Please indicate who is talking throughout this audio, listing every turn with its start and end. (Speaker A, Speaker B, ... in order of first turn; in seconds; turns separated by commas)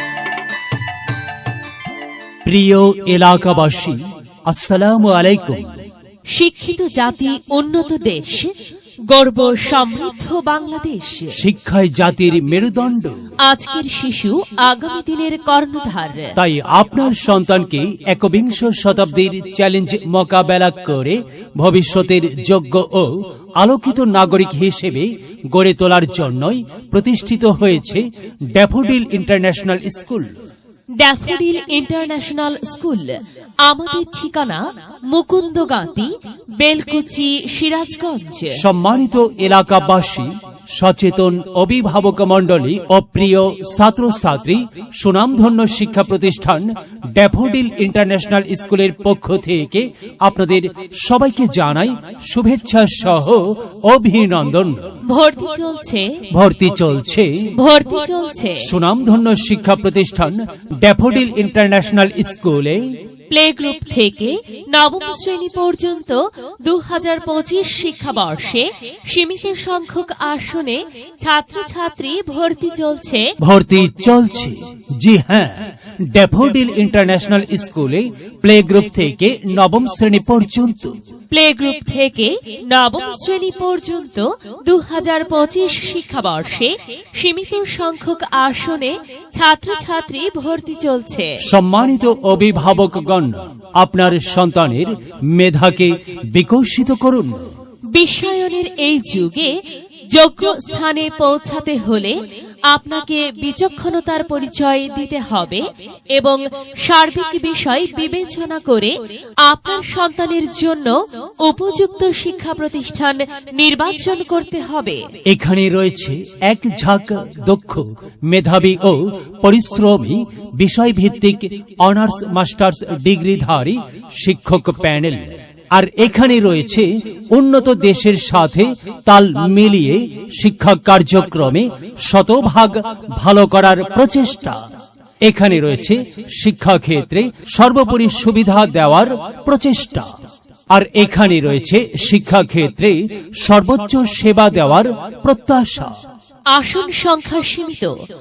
Speaker A: 2.5-5.7, Speaker B: 6.3-8.5, Speaker B: 9.1-11.4, Speaker A: 11.3-13.2, Speaker B: 13.4-16.4, Speaker A: 16.4-30.3, Speaker B: 31.0-38.6, Speaker A: 38.5-54.9, Speaker B: 55.1-56.1, Speaker A: 56.3-57.5, Speaker B: 57.6-58.6, Speaker A: 58.6-62.8, Speaker B: 63.3-73.2, Speaker A: 73.4-80.9, Speaker B: 81.3-91.3, Speaker A: 91.4-97.5, Speaker B: 97.9-99.5, Speaker B: 100.1-102.2, Speaker B: 102.7-108.9, Speaker B: 109.5-110.9, Speaker B: 111.4-115.0, Speaker A: 115.2-134.6, Speaker A: 135.2-140.1, Speaker A: 140.7-145.9, Speaker B: 146.5-147.9